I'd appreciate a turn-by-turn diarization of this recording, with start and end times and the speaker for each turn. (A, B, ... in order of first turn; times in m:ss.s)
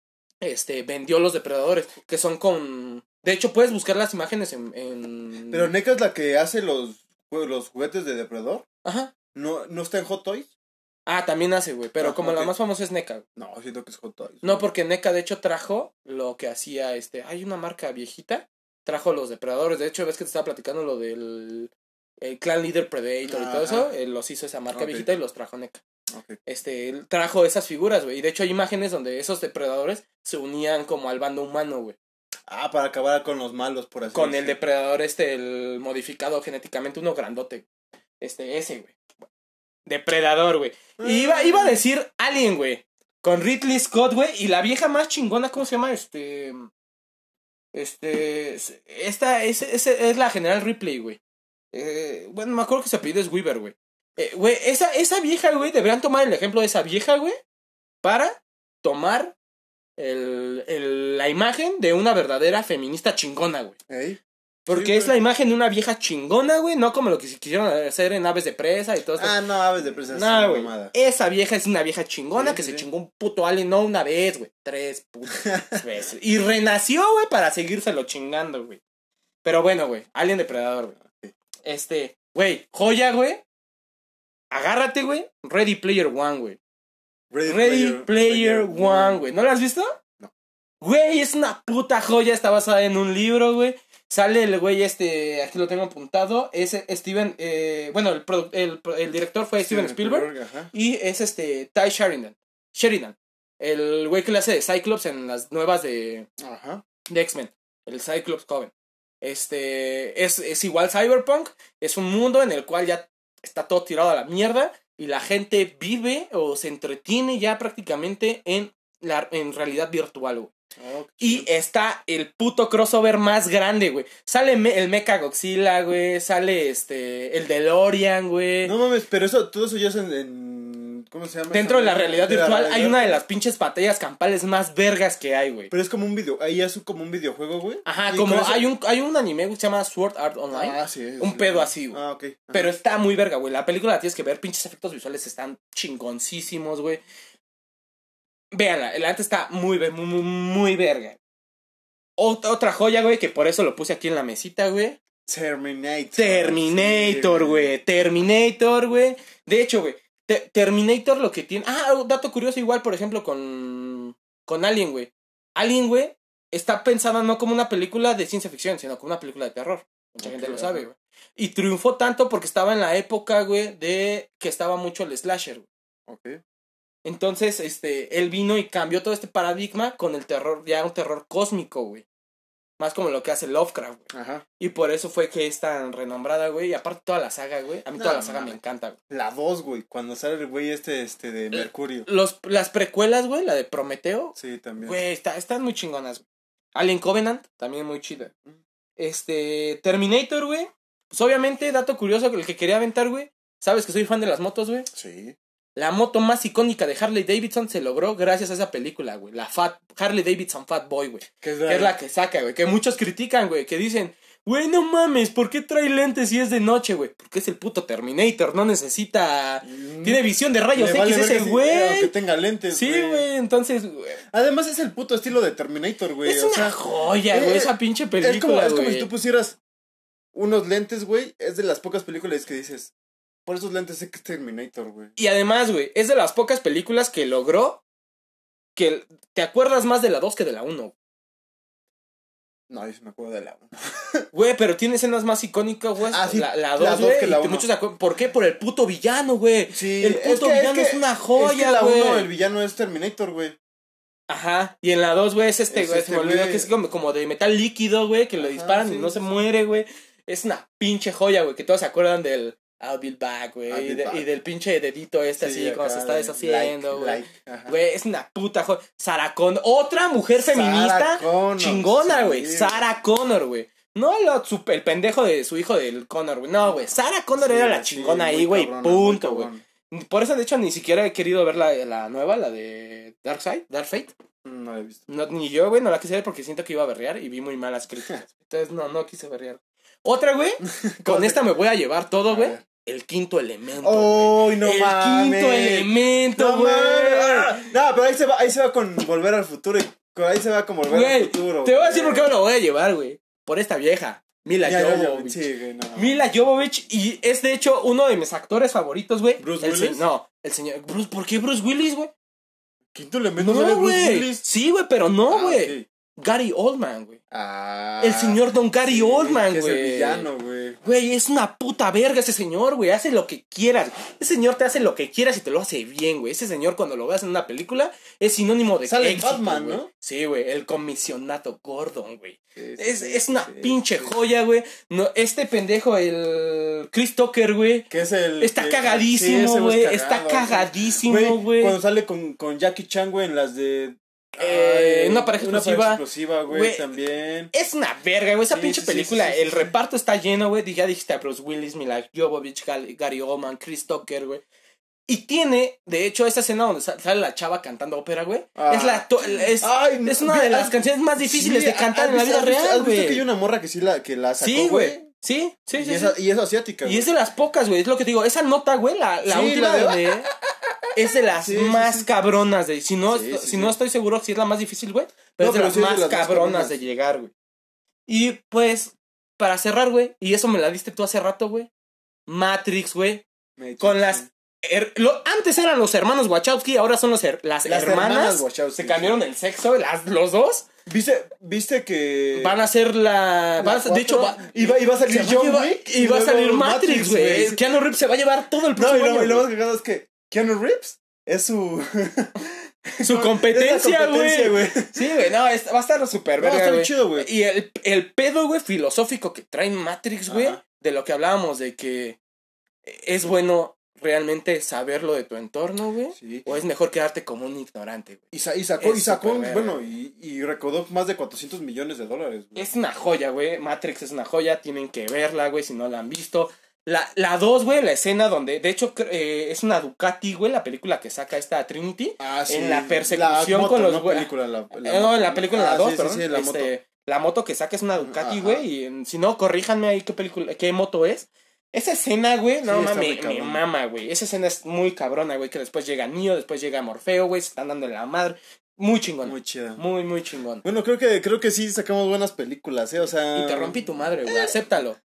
0:00.4-0:05.7 A
0:05.5-0:08.6 B
0:08.8-0:09.1 A
0:09.3-0:10.5 B
0:11.0-0:13.2 A
0:12.0-0:12.5 B
0:13.4-0:14.6 B
0:14.4-0:25.8 A
0:23.2-0:23.9 B
0:24.7-0:25.1 B
0:26.1-0:26.4 B
0:26.4-0:32.0 A
0:32.5-0:34.5 B
0:34.1-0:37.7 A
0:38.2-0:39.0 A
0:39.8-0:46.7 A
0:41.0-0:41.8 B
0:47.7-0:51.2 A
0:51.7-0:57.4 A
0:58.0-0:59.4 A
1:00.0-1:03.8 A
1:03.9-1:05.1 B
1:04.7-1:09.4 A
1:09.2-1:10.9 B
1:10.1-1:18.8 A
1:12.4-1:12.8 B
1:15.4-1:15.8 B
1:19.4-1:21.0 A
1:21.0-1:21.3 B
1:21.6-1:23.4 A
1:24.5-1:26.6 A
1:27.3-1:29.2 B
1:27.4-1:30.0 A
1:30.8-1:46.3 A
1:39.6-1:40.7 B
1:46.4-1:46.8 B
1:47.1-2:00.5 A
2:00.8-2:01.5 B
2:01.2-2:08.7 A
2:08.6-2:13.2 B
2:11.5-2:15.7 A
2:15.7-2:18.7 B
2:17.8-2:22.0 A
2:20.5-2:22.7 B
2:22.5-2:27.0 A
2:28.5-2:31.2 A
2:32.2-2:35.0 A
2:35.3-2:37.7 B
2:36.2-2:55.7 A
2:50.2-2:50.8 B
2:56.1-2:56.4 B
2:57.0-3:02.0 A
3:02.8-3:04.1 A
3:04.1-3:04.4 B
3:04.6-3:09.0 A
3:08.0-3:08.6 B
3:09.1-3:12.1 B
3:11.5-3:18.3 A
3:14.4-3:15.0 B
3:19.0-3:24.9 A
3:24.9-3:25.4 B
3:25.7-3:42.1 A
3:31.4-3:32.0 B
3:39.6-3:40.2 B
3:40.7-3:43.3 B
3:42.7-3:44.2 A
3:44.3-3:46.8 B
3:46.2-3:49.1 A
3:47.3-3:49.6 B
3:50.3-3:52.9 B
3:53.4-3:55.1 B
3:55.2-3:57.8 A
3:58.8-4:00.9 A
4:02.7-4:04.3 B
4:04.3-4:12.3 A
4:06.1-4:07.6 B
4:09.7-4:13.6 B
4:14.3-4:44.1 A
4:15.7-4:16.7 B
4:18.4-4:19.3 B
4:23.7-4:24.2 B
4:25.4-4:27.7 B
4:30.4-4:32.8 B
4:36.6-4:39.6 B
4:44.4-4:45.0 B
4:45.1-4:57.6 A
4:50.6-4:51.4 B
4:52.3-4:52.6 B
4:53.8-5:02.3 B
5:00.9-5:05.4 A
5:04.6-5:06.2 B
5:06.0-5:12.1 A
5:09.4-5:10.0 B
5:12.9-5:14.4 B
5:13.4-5:17.2 A
5:15.3-5:15.8 B
5:17.3-5:20.8 B
5:18.0-5:20.3 A
5:20.8-5:37.9 A
5:28.8-5:29.9 B
5:32.6-5:34.1 B
5:37.9-5:47.5 B
5:38.4-5:41.8 A
5:44.4-5:46.9 A
5:47.5-5:54.4 A
5:48.5-5:49.7 B
5:55.1-6:03.2 A
5:58.6-6:05.0 B
6:04.4-6:06.2 A
6:05.8-6:07.1 B
6:06.8-6:10.3 A
6:09.2-6:10.1 B
6:10.9-6:17.3 A
6:11.4-6:12.1 B
6:13.1-6:13.8 B
6:15.4-6:16.8 B
6:18.1-6:21.7 A
6:22.3-6:23.2 A
6:23.6-6:24.3 B
6:23.8-6:30.6 A
6:27.6-6:29.2 B
6:30.8-6:32.6 B
6:32.3-6:39.5 A
6:33.6-6:37.6 B
6:38.8-6:45.1 B
6:43.0-6:52.2 A
6:46.4-6:47.3 B
6:50.3-6:50.6 B
6:52.8-6:58.2 A
6:56.1-6:56.5 B
6:58.3-7:02.7 B
6:58.8-6:59.9 A
7:02.6-7:30.6 A
7:12.2-7:16.7 B
7:18.0-7:18.6 B
7:22.6-7:23.6 B
7:29.2-7:29.8 B
7:30.6-7:34.5 B
7:33.3-7:35.0 A